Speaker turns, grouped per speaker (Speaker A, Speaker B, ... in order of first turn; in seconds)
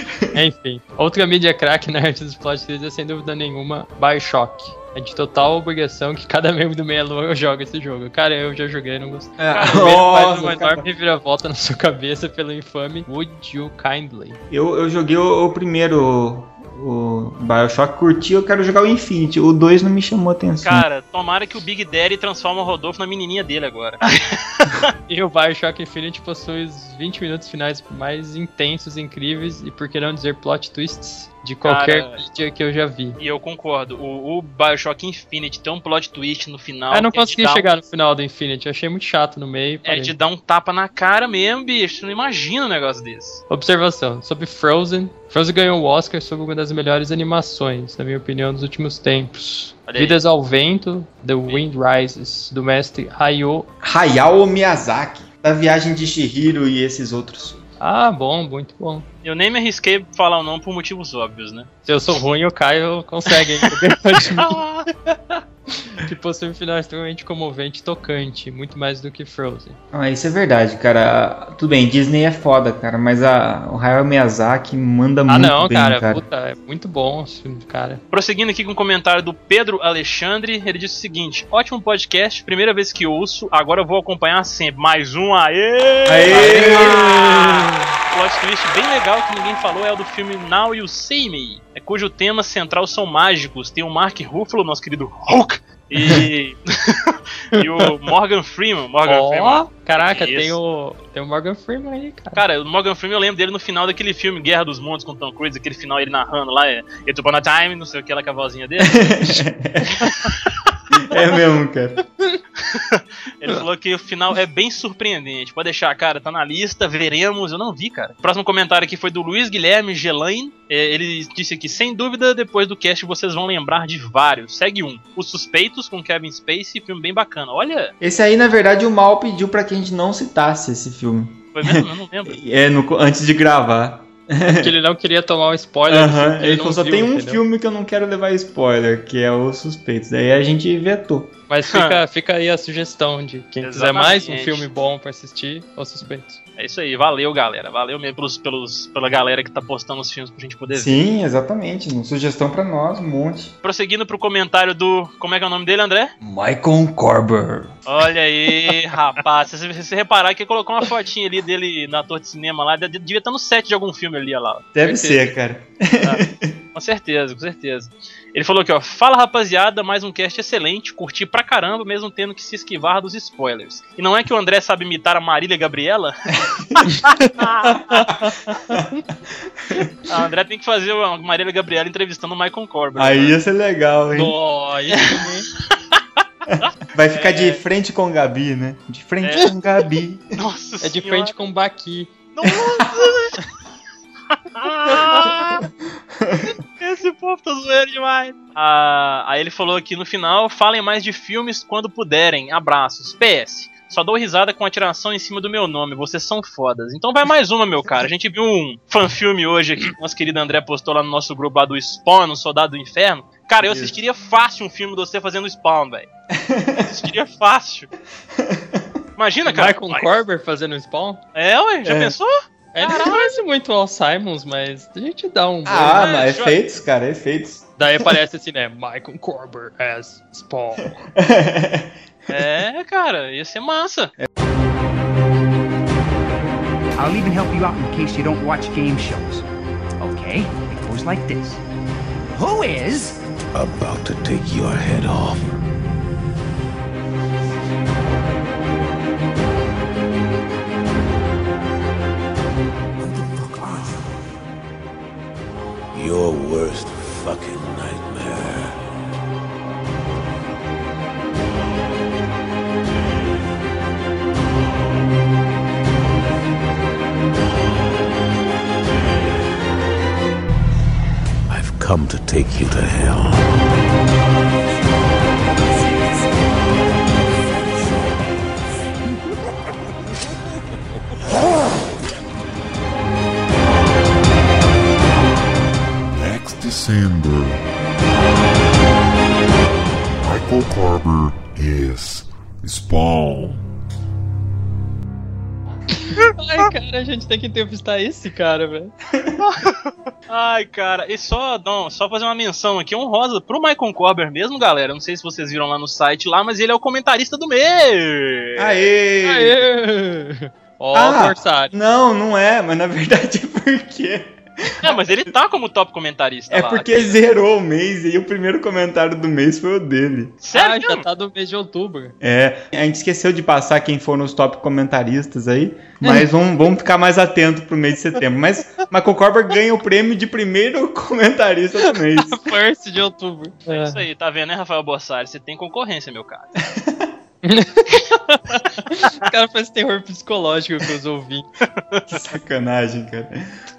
Speaker A: 0.3-14.4, 25.1-33.1, 36.9-40.1, 43.5-53.7, 57.8-59.1, 61.8-69.8, 75.3-78.0, 86.3-87.0, 96.0-96.2, 97.5-97.9, 99.0-102.4, 134.5-137.4, 141.5-146.4, 177.6-178.1, 178.7-179.0, 184.1-185.5, 190.8-192.3, 195.0-195.2, 219.4-221.2, 222.7-226.2, 227.8-231.0, 296.3-298.9, 309.2-311.7, 320.5-322.1, 331.9-334.0, 337.4-341.5
Speaker B: 9.4-10.8, 14.5-20.9, 53.8-57.6, 69.9-76.2, 86.0-87.3, 109.0-109.9, 110.9-112.0, 128.0-134.7, 135.9-141.3, 150.7-153.5, 156.2-157.7, 164.7-166.6, 182.9-184.3, 186.9-190.3, 196.2-196.4, 213.6-213.9, 216.3-217.1, 218.3-218.9, 221.8-222.1, 225.6-228.1, 231.1-231.9, 308.6-309.7, 310.9-315.3, 316.5-320.4, 322.2-332.4, 336.7-337.1, 342.1-343.4
Speaker C: 20.6-24.9, 31.6-32.2, 33.2-37.7, 39.8-43.4, 49.9-50.2, 59.2-61.7, 63.3-64.9, 78.1-100.6, 102.3-109.1, 110.3-110.7, 112.6-127.9, 131.5-132.4, 141.7-142.0, 143.6-144.7, 146.6-151.0, 153.6-156.1, 157.8-165.3, 166.7-178.2, 180.1-183.3, 186.6-187.6, 189.2-191.3, 192.3-193.4, 194.3-195.6, 196.8-216.1, 216.9-217.9, 219.2-220.2, 221.3-223.3, 225.9-226.6, 232.3-234.1, 299.4-308.8, 314.8-317.2, 320.4-321.0, 333.7-336.5
Speaker D: 237.0-239.4, 240.0-241.6, 242.4-243.2
Speaker E: 243.5-245.6, 255.9-258.8, 271.5-273.6
Speaker F: 286.0-287.6, 290.2-293.6